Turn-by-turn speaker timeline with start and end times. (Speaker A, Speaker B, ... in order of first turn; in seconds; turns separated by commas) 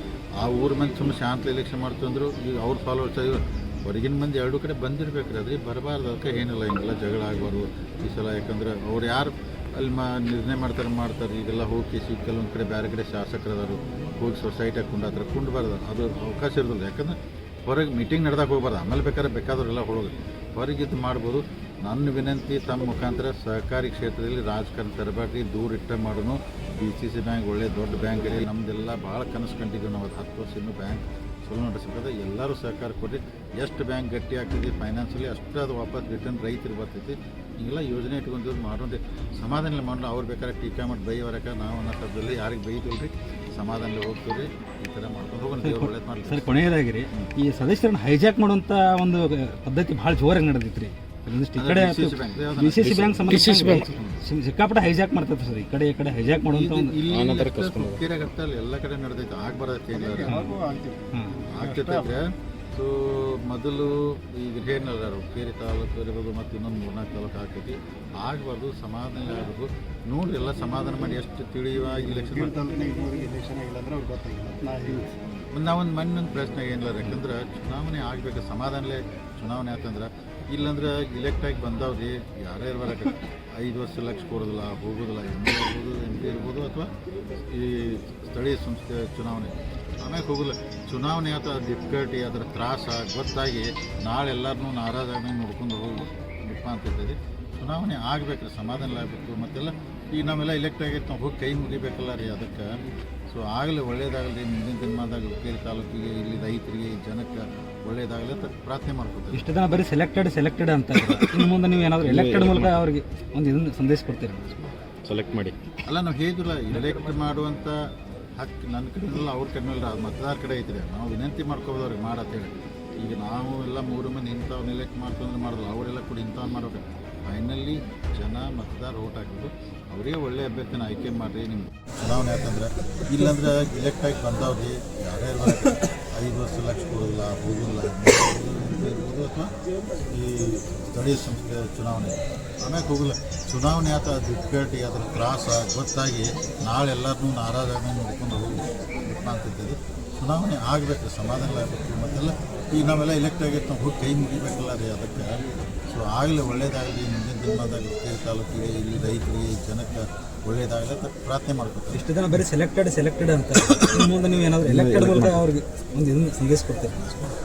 Speaker A: 0.4-47.3, Speaker B: 45.6-57.0, Speaker A: 51.6-53.0, Speaker C: 52.8-53.8, Speaker A: 53.8-54.1, Speaker A: 56.5-60.4, Speaker C: 57.0-58.0, Speaker D: 59.9-62.1, Speaker B: 60.3-60.5, Speaker B: 61.1-61.4, Speaker A: 61.5-72.6, Speaker D: 72.3-75.0, Speaker A: 75.5-86.9, Speaker A: 87.5-102.8, Speaker A: 103.3-109.5, Speaker B: 109.3-114.5, Speaker C: 112.0-112.8, Speaker C: 115.0-115.6, Speaker A: 115.8-117.8, Speaker A: 118.3-139.5, Speaker A: 140.1-162.1, Speaker B: 161.9-166.9, Speaker C: 164.6-165.4, Speaker A: 166.9-167.3